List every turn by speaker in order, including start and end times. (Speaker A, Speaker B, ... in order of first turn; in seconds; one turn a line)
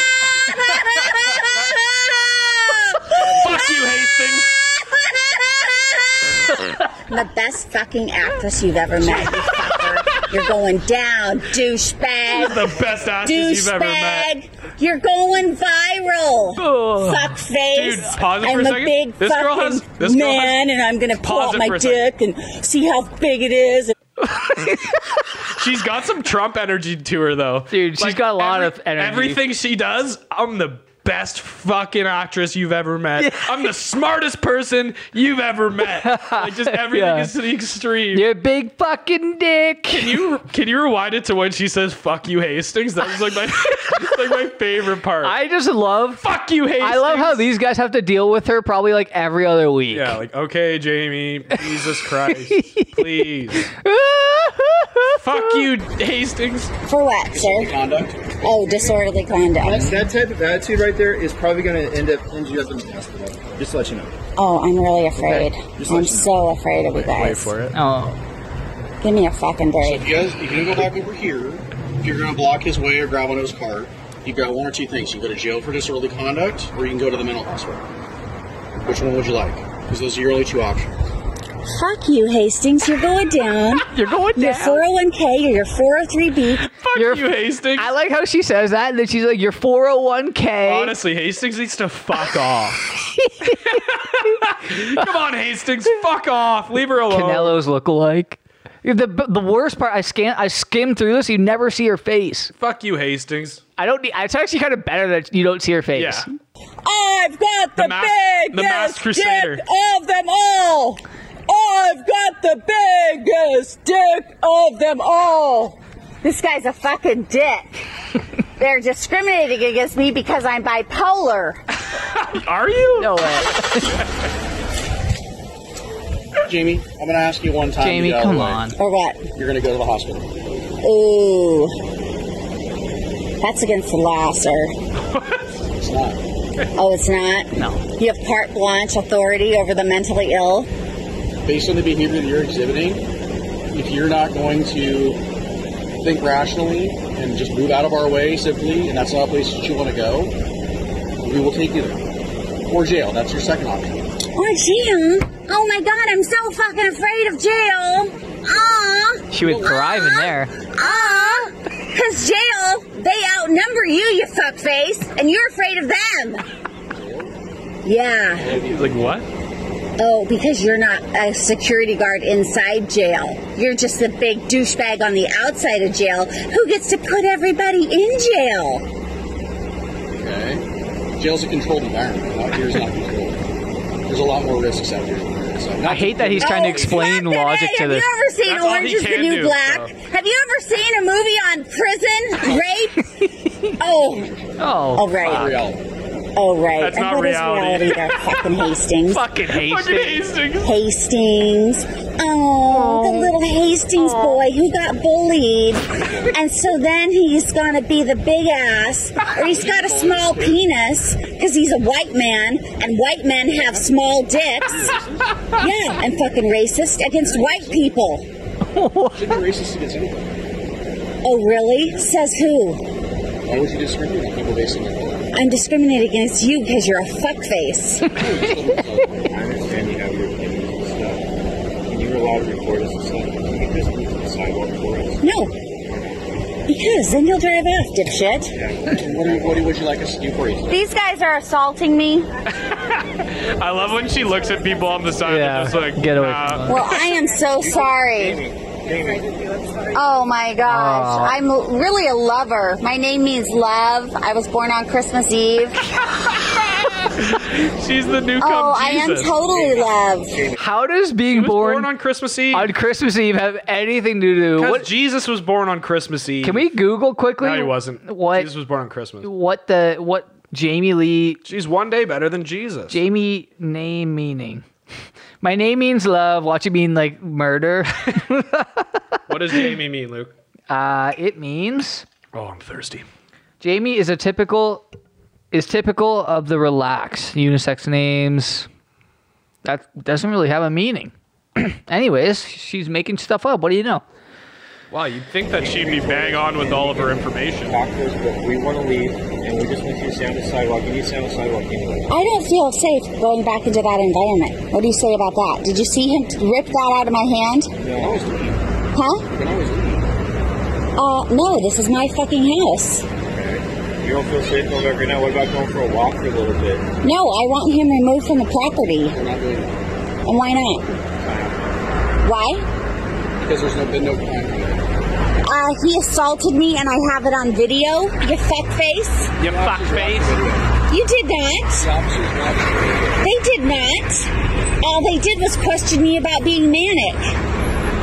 Speaker A: 0.4-3.8
Speaker B: 3.2-4.6
Speaker A: 4.5-23.9
Speaker B: 9.0-9.4
Speaker B: 12.3-14.3
Speaker C: 16.6-17.3
Speaker B: 17.7-20.6
Speaker B: 21.2-22.1
Speaker C: 24.3-25.0
Speaker B: 25.4-38.3
Speaker C: 27.7-29.4
Speaker C: 33.2-33.6
Speaker C: 36.0-37.3
Speaker C: 38.1-40.2
Speaker B: 39.9-45.4
Speaker C: 45.2-46.2
Speaker B: 46.2-47.5
Speaker C: 46.8-50.2
Speaker B: 49.9-53.7
Speaker C: 52.5-53.0
Speaker C: 53.6-55.7
Speaker B: 55.2-56.7
Speaker A: 56.8-57.7
Speaker D: 57.3-59.2
Speaker A: 58.4-60.0
Speaker E: 59.6-64.1
Speaker A: 64.4-67.5
Speaker E: 65.2-66.3
Speaker B: 66.9-67.8
Speaker C: 67.7-68.2
Speaker A: 69.0-70.1
Speaker D: 69.8-77.8
Speaker D: 78.8-80.9
Speaker A: 81.7-86.7
Speaker C: 83.9-84.8
Speaker B: 86.6-87.9
Speaker C: 87.0-91.0
Speaker B: 90.6-93.0
Speaker C: 93.1-93.8
Speaker B: 93.5-97.6
Speaker C: 97.1-102.5
Speaker B: 102.6-103.6
Speaker C: 103.8-106.3
Speaker B: 106.0-106.3
Speaker A: 106.8-117.9
Speaker B: 107.8-109.6
Speaker A: 118.6-121.6
Speaker B: 122.1-123.2
Speaker C: 123.0-124.0
Speaker D: 126.5-128.7
Speaker C: 127.8-128.8
Speaker A: 128.8-129.3
Speaker D: 129.4-130.3
Speaker A: 130.8-131.8
Speaker A: 133.4-134.7
Speaker B: 135.0-135.5
Speaker D: 135.8-136.2
Speaker A: 136.8-140.7
Speaker C: 137.6-137.8
Speaker D: 141.4-143.1
Speaker D: 143.7-145.2
Speaker D: 146.0-150.3
Speaker D: 151.2-152.0
Speaker D: 152.7-154.1
Speaker A: 154.3-166.4
Speaker C: 159.3-160.6
Speaker D: 159.4-159.7
Speaker D: 166.9-167.3
Speaker A: 167.8-168.5
Speaker D: 168.4-169.1
Speaker B: 168.5-169.3
Speaker A: 170.0-178.8
Speaker D: 180.1-180.7
Speaker D: 181.2-183.4
Speaker D: 184.1-187.1
Speaker C: 185.8-188.1
Speaker A: 186.4-193.0
Speaker B: 188.4-189.9
Speaker C: 193.2-193.7
Speaker A: 193.8-194.3
Speaker D: 193.9-194.5
Speaker C: 194.6-195.5
Speaker A: 194.9-195.5
Speaker D: 195.2-195.8
Speaker A: 196.4-199.3
Speaker B: 196.8-198.4
Speaker C: 199.1-200.2
Speaker B: 199.5-200.8
Speaker A: 200.6-214.9
Speaker C: 202.9-203.2
Speaker B: 204.0-204.4
Speaker D: 209.2-210.7
Speaker D: 213.6-213.9
Speaker D: 214.6-215.5
Speaker A: 215.5-218.2
Speaker D: 217.3-217.7
Speaker C: 218.7-219.4
Speaker D: 219.1-220.3
Speaker A: 221.2-222.8
Speaker D: 223.4-225.3
Speaker A: 225.3-228.2
Speaker D: 228.1-229.3
Speaker F: 229.2-235.3
Speaker A: 235.2-235.6
Speaker F: 235.8-236.3
Speaker A: 236.7-238.5
Speaker F: 238.5-239.7
Speaker D: 238.9-240.8
Speaker A: 240.7-242.3
Speaker B: 242.5-246.8
Speaker C: 245.2-246.9
Speaker A: 246.7-248.4
Speaker F: 247.5-249.9
Speaker A: 249.9-255.8
Speaker C: 250.7-251.4
Speaker B: 256.1-259.4
Speaker A: 258.4-260.4
Speaker F: 259.6-260.6
Speaker C: 260.6-261.9
Speaker B: 261.3-262.7
Speaker C: 262.5-264.9
Speaker B: 264.6-266.8
Speaker C: 266.4-268.5
Speaker B: 267.4-269.3
Speaker C: 269.2-271.4
Speaker B: 271.4-273.0
Speaker C: 272.9-274.6
Speaker C: 275.4-279.2
Speaker B: 279.3-280.3
Speaker C: 280.7-282.1
Speaker B: 282.3-283.1
Speaker C: 283.6-284.9
Speaker C: 285.5-288.7
Speaker C: 289.6-294.0
Speaker B: 294.9-297.8
Speaker F: 295.5-302.1
Speaker A: 302.1-307.7
Speaker F: 307.8-308.4
Speaker D: 307.9-308.6
Speaker A: 308.9-309.3
Speaker D: 309.3-310.1
Speaker A: 311.0-313.1
Speaker F: 313.2-316.9
Speaker A: 317.0-319.2
Speaker D: 319.1-319.9
Speaker A: 320.2-320.9
Speaker F: 321.2-321.6
Speaker A: 322.2-322.6
Speaker D: 323.4-324.9
Speaker A: 325.4-329.3
Speaker B: 329.4-330.3
Speaker D: 329.4-330.8
Speaker A: 330.9-331.9
Speaker D: 331.8-333.3
Speaker A: 333.2-334.3
Speaker A: 334.8-337.3